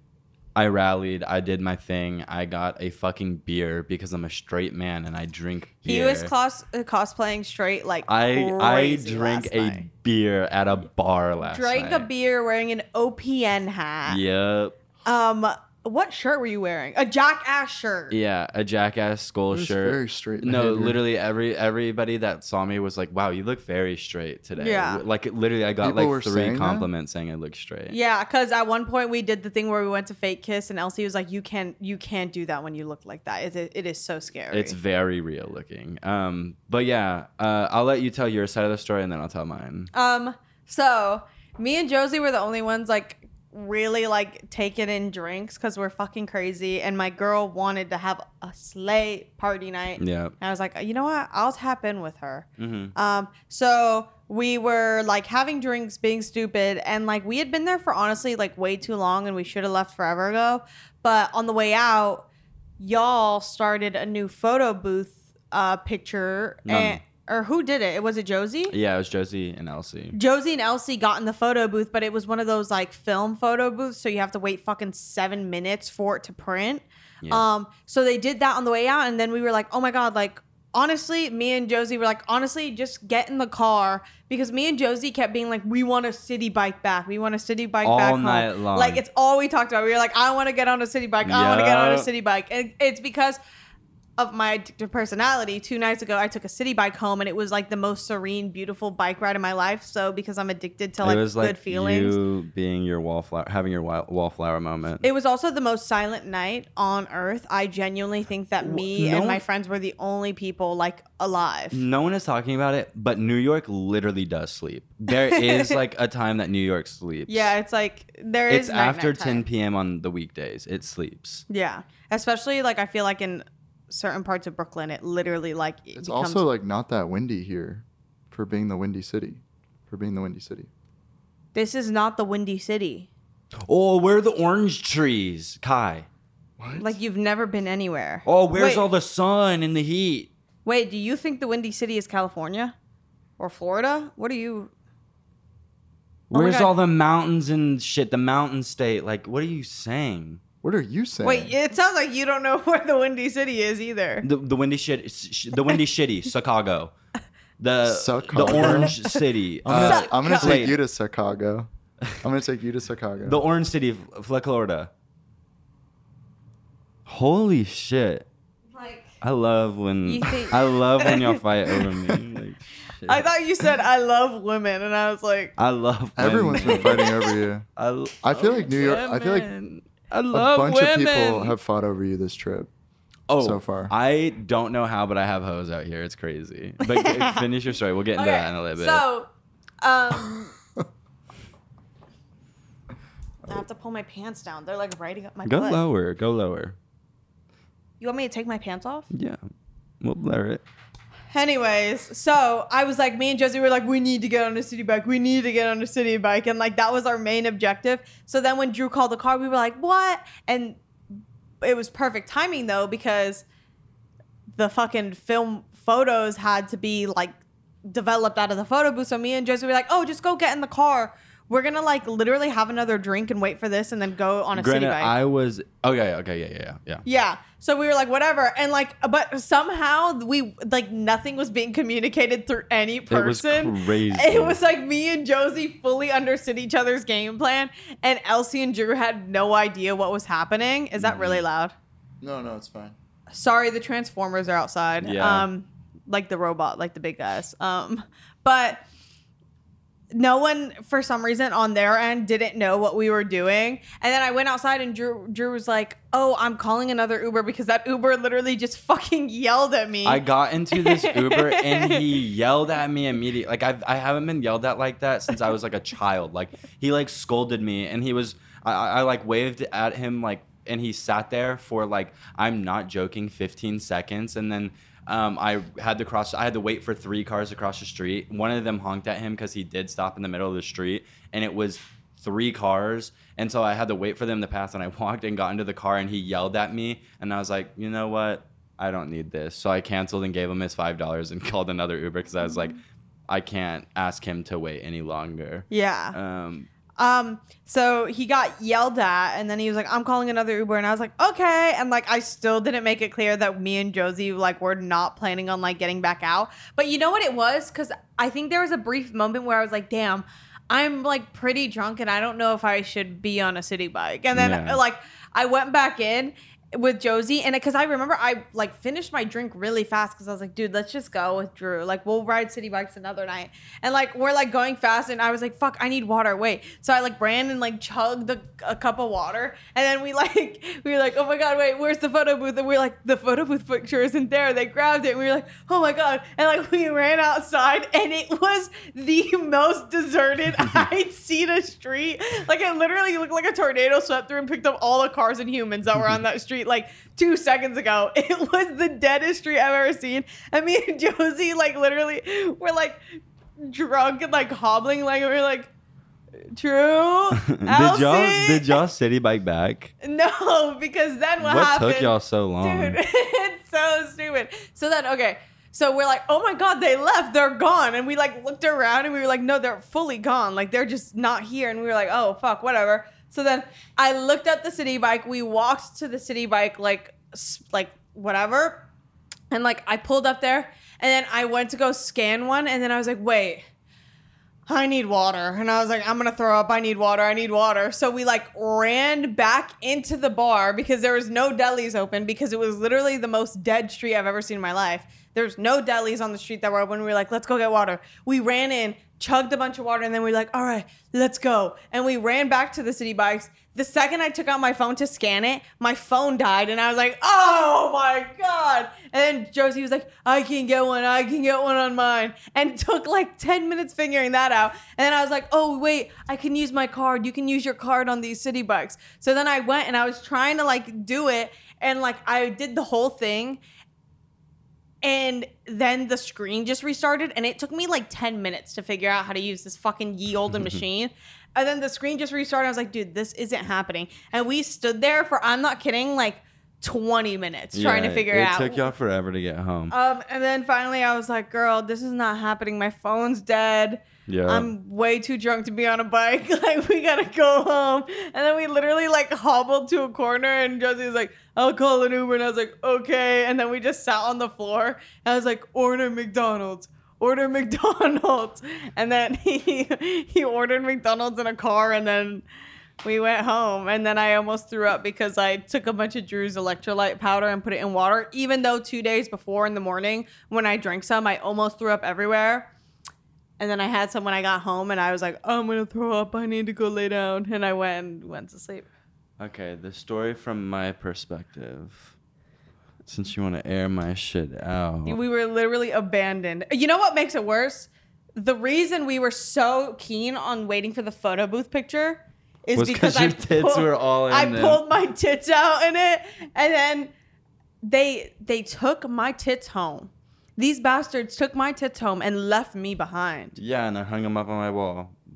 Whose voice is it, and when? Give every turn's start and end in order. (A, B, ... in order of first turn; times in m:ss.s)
0:00.6-0:06.3 A
0:05.8-0:09.9 B
0:08.1-0:12.1 A
0:11.4-0:14.2 B
0:14.1-0:14.8 A
0:15.0-0:18.2 B
0:18.1-0:28.0 A
0:19.5-0:21.0 C
0:24.6-0:25.0 B
0:25.8-0:26.9 C
0:27.9-0:34.8 B
0:34.5-0:39.9 A
0:39.9-1:02.3 B
0:50.0-0:50.3 A
0:52.6-0:52.9 A
1:02.8-1:08.7 B
1:06.7-1:07.0 A
1:08.7-1:10.2 A
1:10.1-1:33.4 B
1:27.8-1:29.0 A
1:31.2-1:32.1 A
1:34.2-1:42.2 B
1:41.0-1:45.0 A
1:45.0-1:51.8 B
1:48.6-1:49.4 A
1:51.7-1:57.5 A
1:55.1-1:55.7 B
1:57.3-1:59.4 B
1:58.5-2:01.4 A
2:01.5-2:06.5 B
2:06.0-2:10.7 C
2:11.5-2:13.1 B
2:13.6-2:16.1 A
2:16.6-2:17.0 C
2:16.8-2:18.9 B
2:18.2-2:20.3 A
2:20.6-2:22.8 B
2:23.4-2:24.7 B
2:26.3-2:30.4 A
2:26.3-2:26.7 B
2:30.6-2:31.5 C
2:31.2-2:34.3 B
2:34.2-2:36.9 A
2:37.6-2:40.8 A
2:37.8-2:39.0 C
2:38.5-2:39.2 B
2:39.6-2:43.4 C
2:39.7-2:40.7 B
2:43.2-2:44.9 A
2:47.1-2:48.3 A
2:48.7-2:49.1 B
2:49.2-2:53.3 A
2:50.1-2:52.2 B
2:53.1-2:55.5 B
2:55.6-2:57.1 A
2:56.2-2:57.7 C
2:56.7-2:57.3 B
2:57.8-3:00.8 A
2:58.2-2:59.5 C
2:58.7-2:59.5 B
3:00.3-3:02.7 C
3:00.6-3:01.5 B
3:03.3-3:09.0 A
3:03.4-3:03.9 C
3:06.8-3:07.4 B
3:08.2-3:09.3 B
3:09.8-3:10.6 B
3:13.5-3:15.8 B
3:15.4-3:16.8 A
3:18.0-3:19.1 B
3:19.1-3:19.4 A
3:20.0-3:20.6 A
3:21.3-3:30.8 B
3:31.6-3:33.4 B
3:34.6-3:45.1 B
3:44.6-3:47.0 A
3:47.0-4:01.7 B
3:53.1-3:54.6 A
4:01.0-4:01.4 A
4:02.2-4:03.0 C
4:03.3-4:08.8 B
4:05.0-4:05.5 A
4:10.1-4:22.1 B
4:20.0-4:56.7 A
4:55.7-4:56.2 B
4:57.0-5:53.0 B
5:14.3-5:14.8 A
5:53.6-5:55.7 B
5:56.5-5:58.8 B
5:57.4-5:59.9 A
6:00.0-6:18.9 B
6:01.4-6:03.0 A
6:19.5-6:23.6 B
6:24.7-7:03.6 B
7:05.0-7:18.9 B
7:17.7-7:19.9 A
7:19.9-7:42.4 B
7:24.3-7:24.7 A
7:43.0-7:52.7 B
7:53.6-7:58.9 B
7:59.4-8:02.2 A
8:03.1-8:05.2 A
8:05.1-8:17.1 B
8:12.8-8:14.8 A
8:17.8-8:23.6 B
8:23.6-8:25.2 A